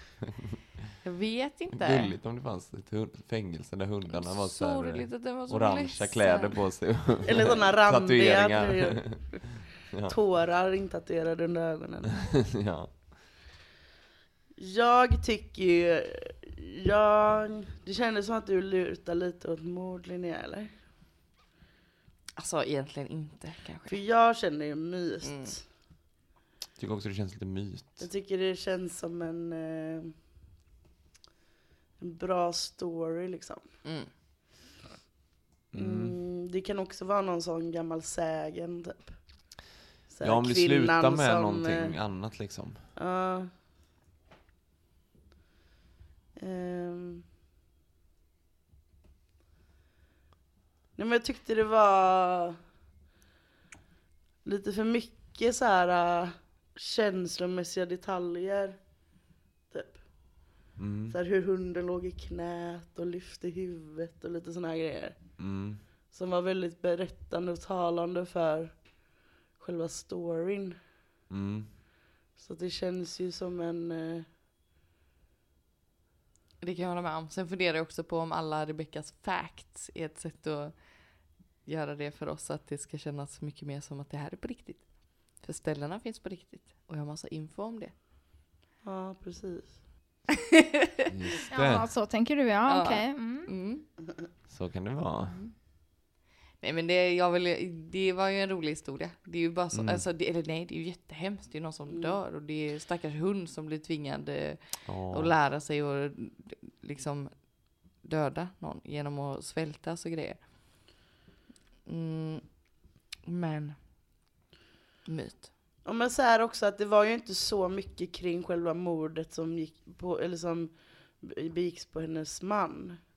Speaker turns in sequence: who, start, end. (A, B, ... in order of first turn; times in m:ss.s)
0:01.0-0:02.1 A
0:01.7-0:10.1 B
0:04.1-0:06.7 A
0:07.3-0:12.4 C
0:12.3-0:13.0 B
0:14.6-0:20.7 C
0:22.4-0:24.0 A
0:23.9-0:25.6 C
0:25.2-0:25.6 A
0:26.8-0:28.1 B
0:28.0-0:30.1 C
0:32.0-0:33.6 C
0:33.8-0:34.1 A
0:35.7-0:36.2 B
0:35.7-0:39.2 C
0:40.1-0:41.9 C
0:40.2-0:42.8 B
0:43.0-0:43.5 C
0:46.4-0:47.2 C
0:51.0-0:52.6 C
0:54.4-0:58.8 C
0:59.7-1:00.0 C
1:00.8-1:01.2 B
1:01.1-1:05.4 C
1:05.4-1:05.8 B
1:06.1-1:10.8 C
1:11.3-1:11.7 B
1:12.3-1:14.2 C
1:16.6-1:27.9 A
1:28.8-1:29.8 C
1:31.1-1:31.9 B
1:31.5-1:33.5 D
1:32.7-1:33.8 A
1:34.5-1:35.4 B
1:35.2-1:35.5 A
1:36.6-1:50.5 A
1:39.7-1:40.0 B
1:44.8-1:45.3 B
1:51.8-1:53.8 A
1:55.0-1:55.5 A
1:55.8-2:03.0 C